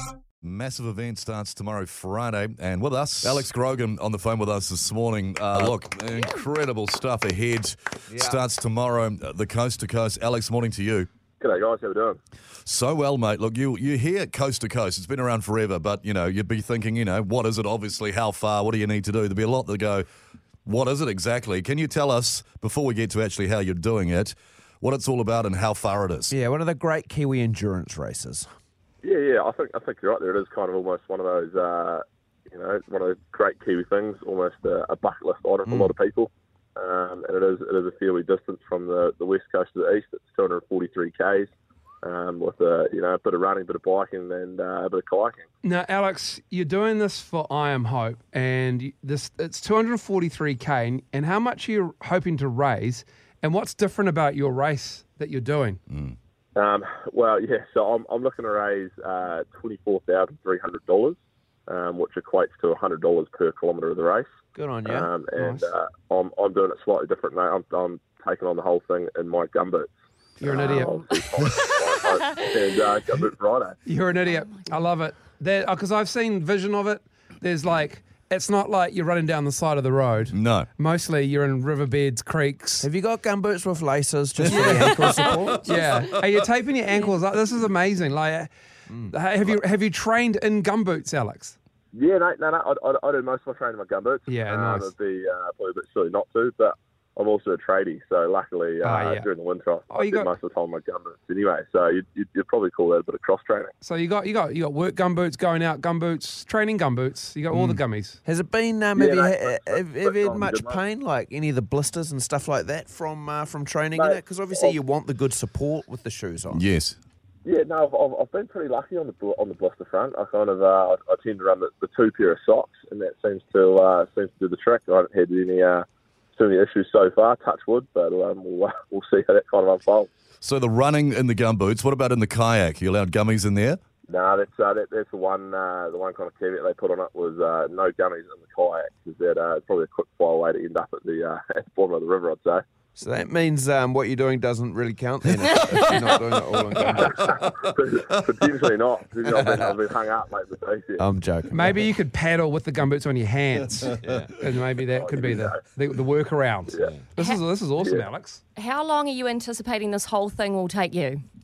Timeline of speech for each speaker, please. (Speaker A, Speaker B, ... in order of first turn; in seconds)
Speaker A: 0.4-11.1, 12.7-20.1, 20.6-26.3, 55.9-56.2, 80.3-80.7, 116.5-117.0, 130.4-133.8
Speaker B: 8.1-8.4, 26.3-28.5, 35.7-35.9, 64.5-65.1, 82.8-85.8, 108.2-116.6, 143.0-147.3, 149.3-149.8, 151.0-151.8, 154.0-154.3
Speaker C: 11.4-12.2, 29.0-41.5, 42.0-45.4, 56.6-61.2, 61.7-64.3, 64.9-69.9, 70.4-73.8, 91.9-103.7, 109.0-110.8, 113.9-114.8, 117.5-130.1, 134.1-142.6, 146.9-151.1, 154.9-155.6
Speaker D: 45.6-55.8, 65.4-65.7, 70.4-71.0, 73.9-82.9, 84.5-88.5, 89.1-91.5, 94.3-94.9, 98.8-99.3, 99.9-100.3, 103.8-108.2, 151.5-158.4
Speaker E: 158.6-161.2